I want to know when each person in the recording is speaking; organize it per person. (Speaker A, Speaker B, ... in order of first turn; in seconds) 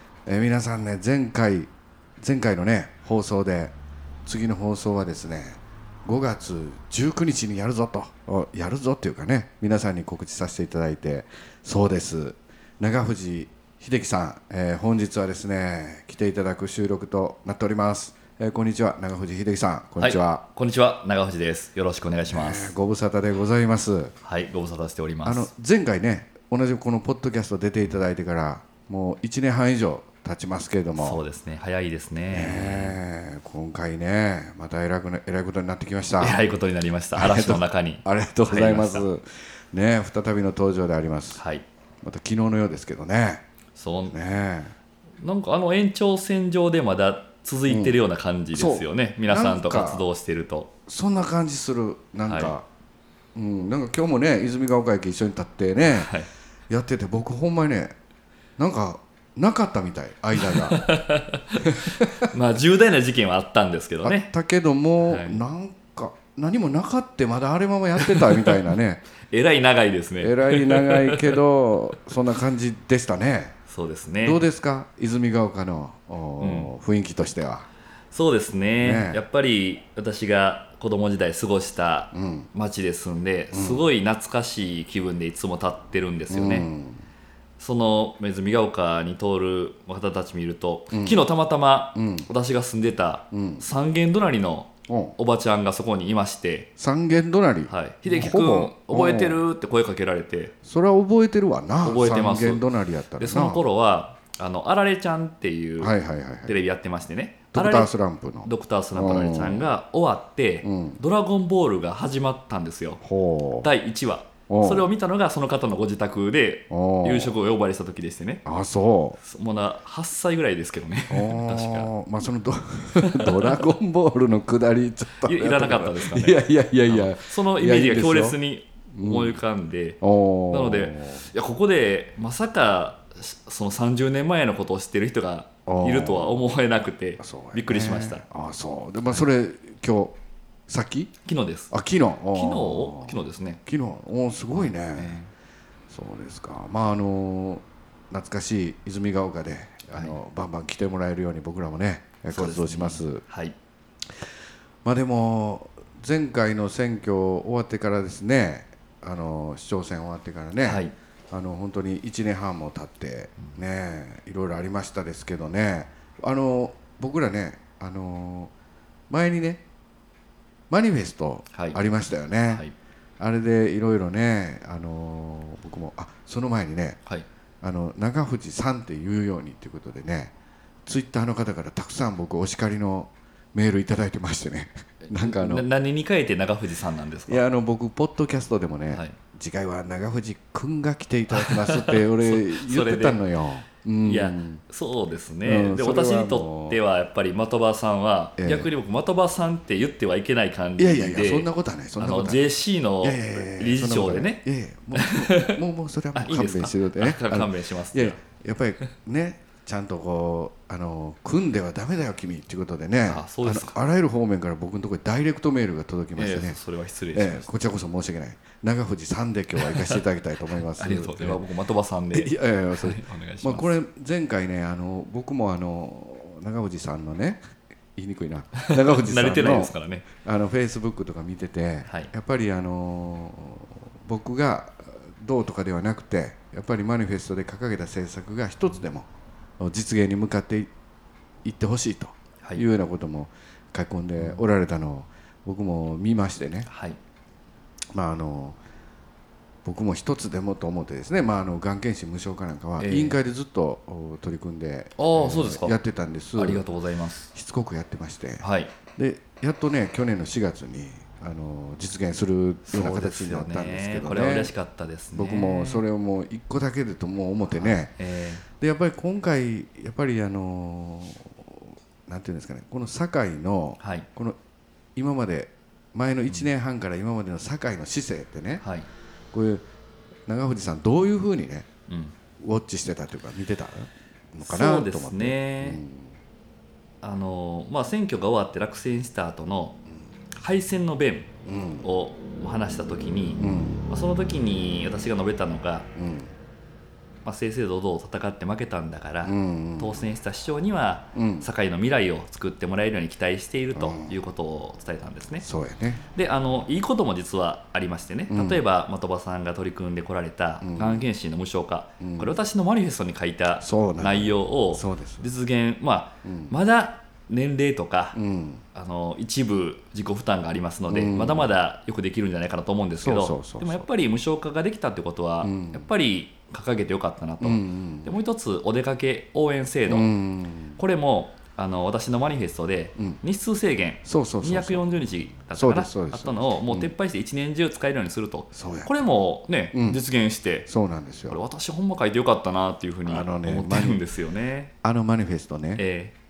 Speaker A: 0.2-20.4, 22.3-24.1, 25.2-31.2, 32.3-36.4, 37.1-41.4, 42.0-43.4, 44.1-44.7, 47.7-48.0, 48.5-50.0, 50.9-52.6, 53.3-56.1, 56.7-57.9, 58.6-60.9, 61.7-62.2, 64.0-69.0, 70.2-73.5, 74.2-77.7, 78.8-79.2, 82.1-82.5, 83.5-83.8, 86.3-87.0, 90.9-91.2, 91.9-92.3, 93.3-93.7, 94.9-95.1, 96.8-99.4, 100.6-103.6, 105.8-106.6, 107.5-109.7, 110.6-111.0, 113.0-113.7, 114.5-114.9, 116.7-117.3, 118.4-119.2, 121.1-128.4, 128.9-129.4, 130.0-131.3, 135.7-136.5, 137.2-140.2, 140.7-141.1, 141.7-145.2, 145.9-153.2, 154.8-168.5, 169.1-169.6, 170.7-172.6, 173.2-177.0, 177.6-180.3, 180.8-185.7, 187.3-194.6, 195.4-196.8, 198.4-198.7, 200.8-202.5, 203.0-216.6, 217.1-221.4, 222.1-227.4, 227.9-239.1, 239.6-240.7, 241.4-246.7, 247.9-248.6, 249.6-256.6, 257.3-264.5, 265.1-267.9, 268.6-274.4, 274.9-278.6, 279.3-279.6, 280.3-281.7, 282.4-286.1, 291.4-291.9, 293.4-293.8, 295.9-296.3, 299.2-300.1, 301.1-301.5, 303.7-304.2, 305.4-306.0, 308.3-308.6, 310.6-311.1, 312.0-312.4, 313.6-315.3, 316.2-316.5, 318.1-318.6, 320.9-321.5, 323.0-323.9, 325.4-325.9, 327.4-328.2, 329.9-330.8, 334.0-334.9, 335.5-336.9, 338.5-339.0, 339.7-340.0, 340.6-341.4, 343.1-344.0, 344.8-345.8
Speaker B: 20.0-22.7, 24.2-25.5, 31.0-33.0, 36.2-39.1, 41.3-41.6, 43.8-44.2, 45.2-50.7, 52.3-52.5, 55.9-56.3, 60.4-64.3, 65.0-65.4, 68.0-68.7, 69.3-71.4, 73.7-74.4, 76.4-76.7, 78.1-86.7, 87.6-96.7, 97.7-100.5, 101.8-107.9, 108.4-113.0, 113.6-118.4, 119.2-121.9, 123.0-123.6, 125.2-138.2, 141.2-141.7, 142.3-143.6, 144.5-145.3, 152.3-153.5, 160.6-160.9, 171.5-171.8, 172.5-172.7, 185.0-187.4, 188.9-189.2, 191.3-193.2, 194.0-204.4, 204.9-205.6, 206.1-208.2, 213.1-213.8, 216.2-217.5, 219.6-220.0, 220.7-223.7, 228.7-230.1, 231.8-232.1, 244.2-244.4, 246.7-247.0, 252.8-253.2, 254.9-255.8, 256.4-257.3, 258.4-258.7, 262.7-265.8, 267.5-268.4, 273.8-274.1, 278.6-278.9, 281.9-282.1, 284.4-285.8, 287.0-289.8, 290.4-291.3, 291.8-295.9, 297.2-305.4, 306.1-318.2, 318.7-330.1, 330.8-340.7, 341.3-344.7, 345.8-346.1